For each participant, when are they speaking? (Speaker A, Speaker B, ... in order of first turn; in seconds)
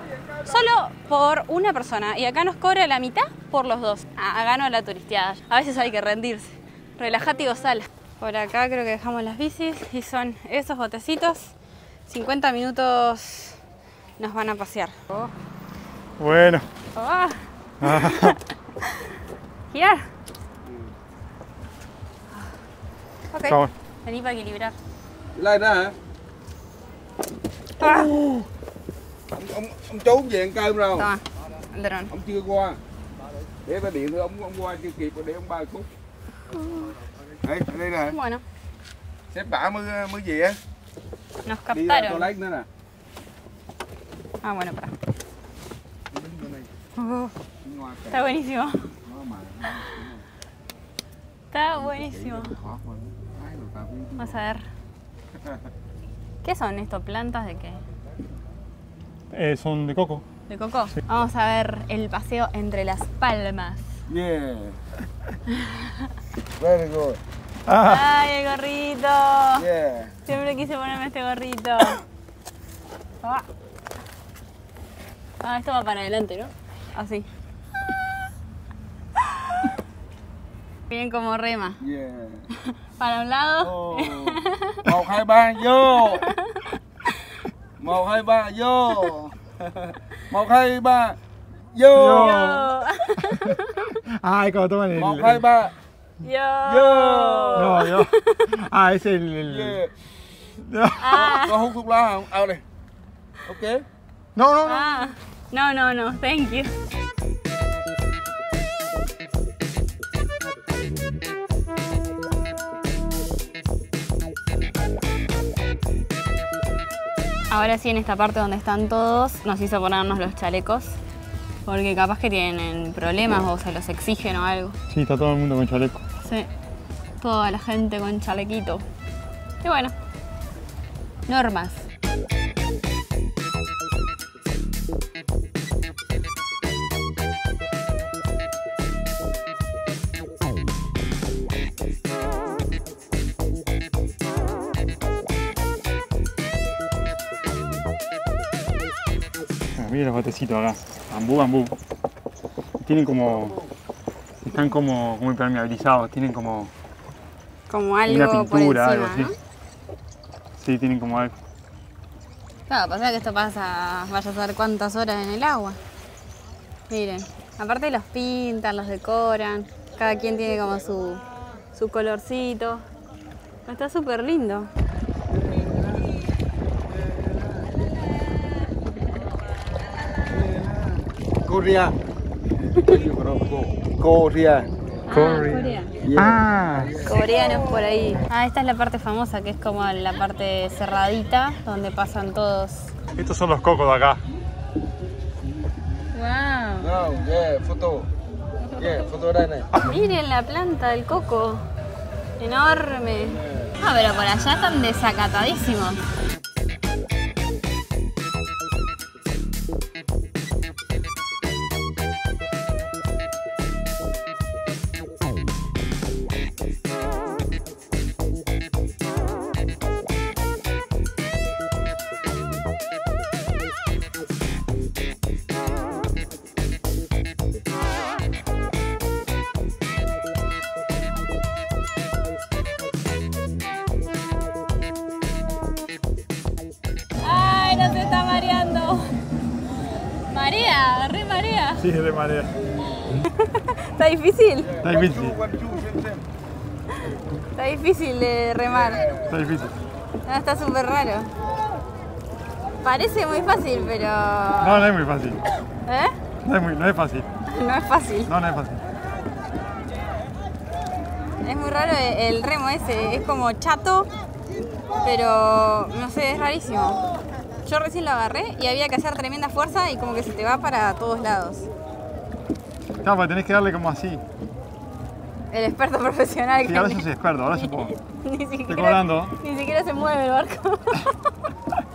Speaker A: 0.5-11.5, 12.1-13.6, 14.2-15.3, 16.9-19.1, 19.7-20.1, 23.3-24.7, 27.8-28.1, 31.0-32.1, 36.5-36.9, 38.1-38.4, 41.4-42.3, 44.4-44.9, 47.0-47.3, 48.1-48.9, 51.5-52.5, 54.2-54.6, 56.4-57.8, 60.5-63.9, 65.5-66.1, 67.8-69.7, 70.2-72.0, 75.4-77.3, 80.9-81.8, 82.6-84.8, 86.1-87.3, 92.0-94.0, 96.2-98.5, 101.0-101.6, 104.7-106.7, 117.5-121.0, 121.7-124.8, 126.2-126.5, 127.2-128.8, 129.6-129.9, 131.3-131.8, 157.7-159.3, 162.7-165.8, 166.9-172.8, 173.7-174.7, 185.1-185.9, 187.0-192.9, 196.1-196.9, 199.8-201.7, 202.4-206.0, 237.2-239.1, 240.3-241.8, 243.2-244.7, 247.5-249.1, 250.2-251.3, 252.8-254.9, 255.8-256.1, 257.5-258.3, 261.4-264.1, 265.0-267.1, 267.6-271.7, 275.5-281.3
Speaker B: 16.2-16.6, 17.8-18.4, 59.3-60.2, 67.7-68.1, 91.9-95.4, 97.5-99.8, 100.6-101.2, 104.3-105.0, 124.9-126.0, 149.8-151.7, 152.8-153.6, 154.4-156.7, 158.1-159.3, 160.6-161.3, 185.1-186.9, 193.1-194.2, 241.8-242.5, 244.8-245.4, 249.3-249.8, 254.6-255.4, 256.4-257.3, 258.3-258.8, 273.0-274.2, 276.6-277.9, 278.7-279.4
Speaker C: 20.6-20.9, 25.4-25.9, 29.3-31.1, 32.1-32.8, 33.6-35.9, 37.4-38.2, 39.3-40.6, 41.7-42.7, 46.1-46.7, 47.6-48.4, 49.0-50.2, 51.8-54.4, 64.1-64.8, 66.6-67.2, 69.6-70.2, 81.8-82.5, 83.6-86.3, 87.8-91.2, 91.7-92.5, 94.9-95.7, 96.6-97.8, 99.5-99.9, 101.1-102.6, 103.5-103.8, 175.4-176.0, 176.9-177.7, 180.2-181.9, 182.7-184.7, 186.0-187.2, 196.8-198.1, 198.8-199.7, 244.6-246.2, 248.8-249.3